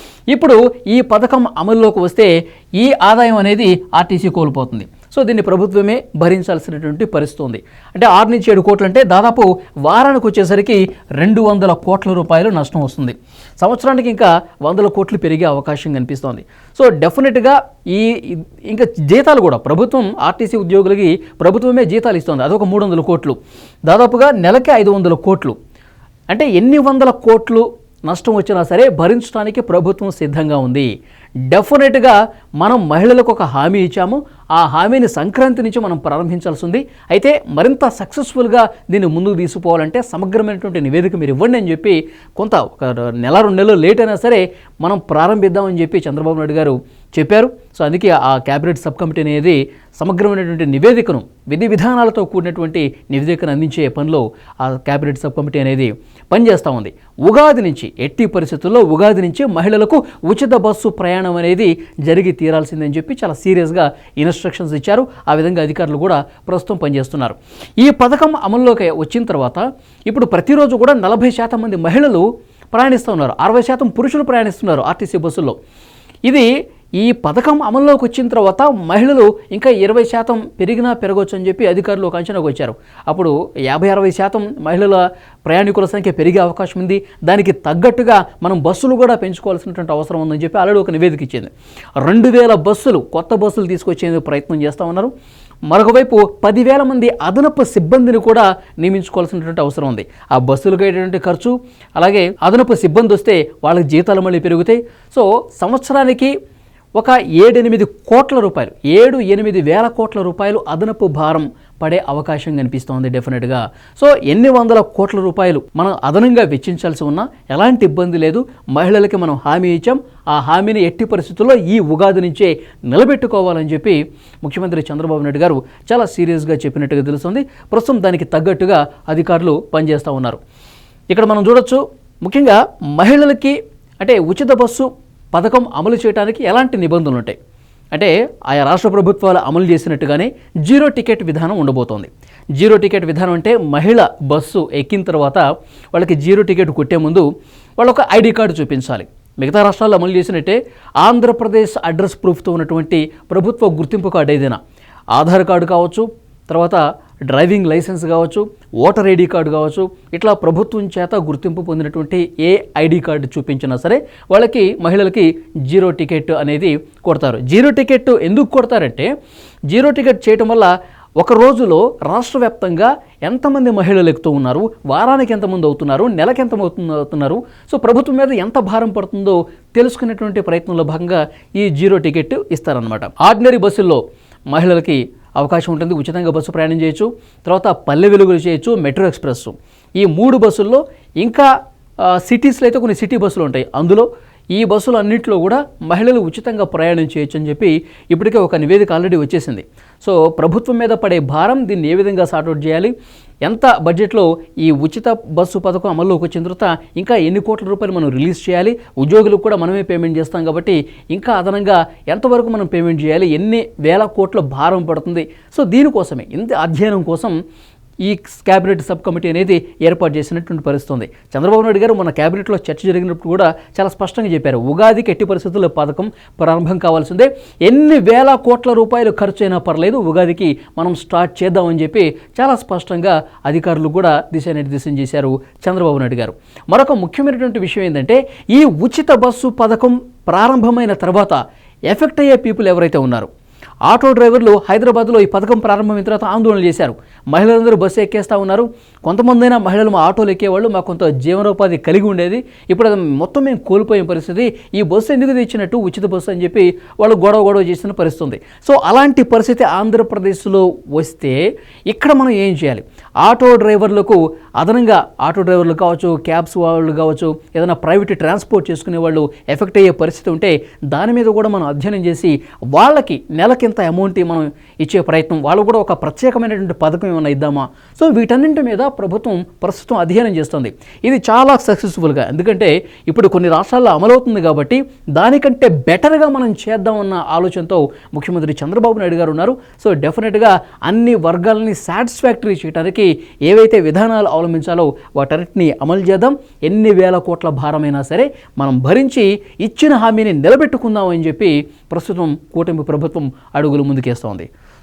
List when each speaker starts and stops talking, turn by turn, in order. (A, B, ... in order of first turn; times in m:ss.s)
0:00.3-0:25.6 A
0:26.3-0:30.9 A
0:31.5-1:15.5 A
1:16.2-1:35.1 A
1:35.7-1:46.3 A
1:47.0-2:10.4 A
2:11.1-2:17.4 A
2:17.9-2:27.2 A
2:27.8-2:34.6 A
2:35.1-2:49.1 A
2:49.7-3:11.5 A
3:12.0-3:22.9 A
3:23.4-3:37.3 A
3:38.0-4:01.4 A
4:01.9-4:03.3 A
4:03.9-5:04.5 A